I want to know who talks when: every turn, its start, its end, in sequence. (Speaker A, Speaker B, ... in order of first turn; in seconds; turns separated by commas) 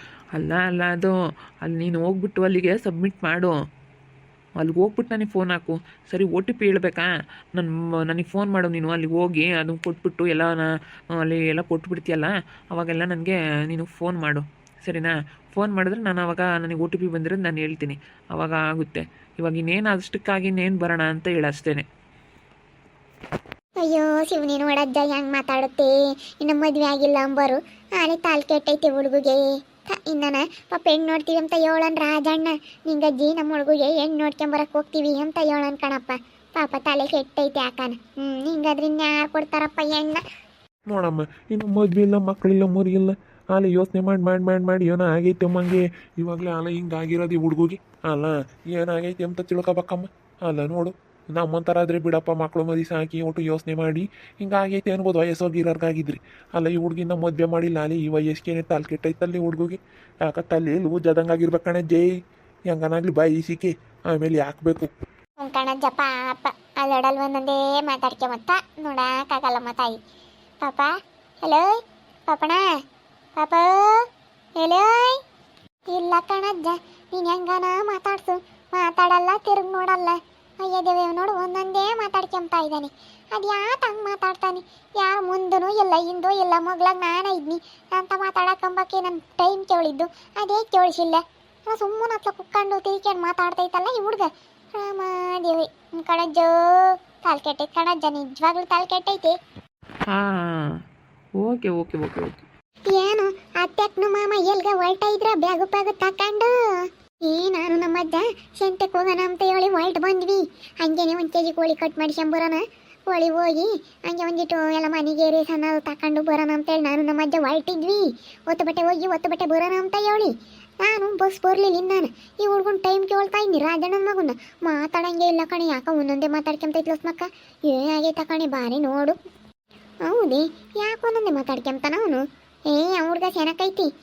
Speaker A: 0.3-3.5, Speaker A: 4.6-21.9, Speaker B: 23.8-40.2, Speaker C: 40.9-62.1, Speaker C: 62.7-64.9, Speaker B: 65.4-70.0, Speaker B: 70.6-70.9, Speaker B: 71.4-71.7, Speaker B: 72.3-72.6, Speaker B: 73.4-74.0, Speaker B: 74.6-75.2, Speaker B: 75.9-99.3, Speaker A: 100.1-100.7, Speaker A: 101.4-102.4, Speaker B: 102.9-129.2, Speaker B: 130.1-133.9